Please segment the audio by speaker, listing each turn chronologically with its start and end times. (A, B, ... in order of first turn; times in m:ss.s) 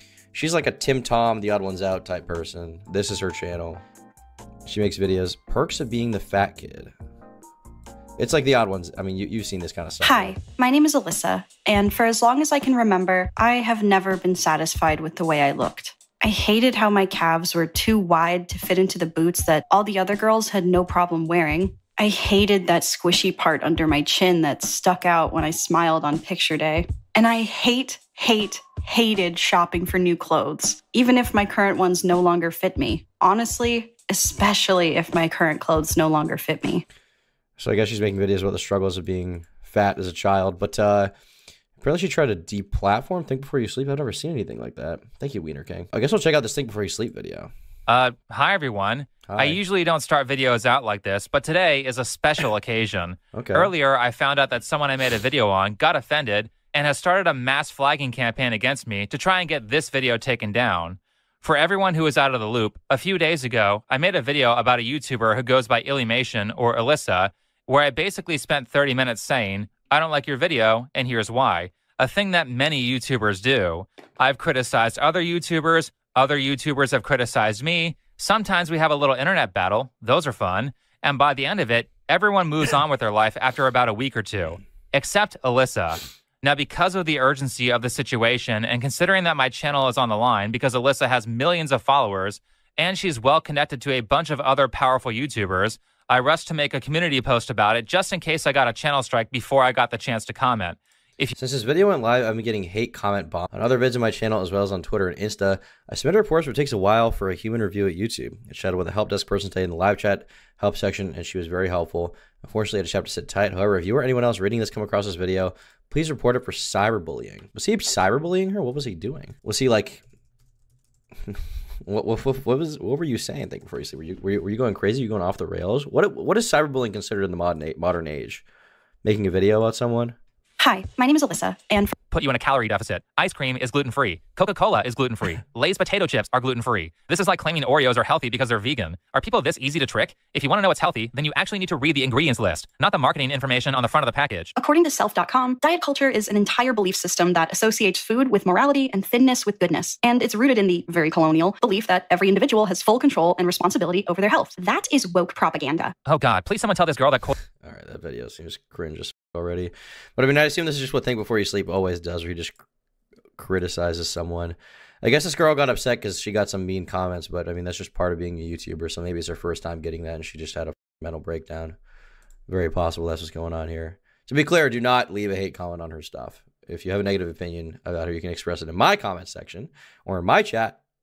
0:00.3-0:03.8 A
0:04.6-0:06.9 A
0:08.2-0:10.4 A
0:10.0-0:36.8 B
0:37.6-0:41.1 A
0:41.8-0:47.5 A
0:47.9-1:41.3 C
0:49.2-0:49.6 A
0:53.3-0:53.7 A
1:41.4-2:00.0 A
2:01.3-2:08.4 A
2:09.0-2:10.2 A
2:10.6-2:11.9 B
2:12.1-2:24.5 C
2:24.6-2:35.9 B
2:36.0-2:37.3 C
2:37.6-2:42.6 A
2:43.4-2:51.8 A
2:52.5-3:00.8 A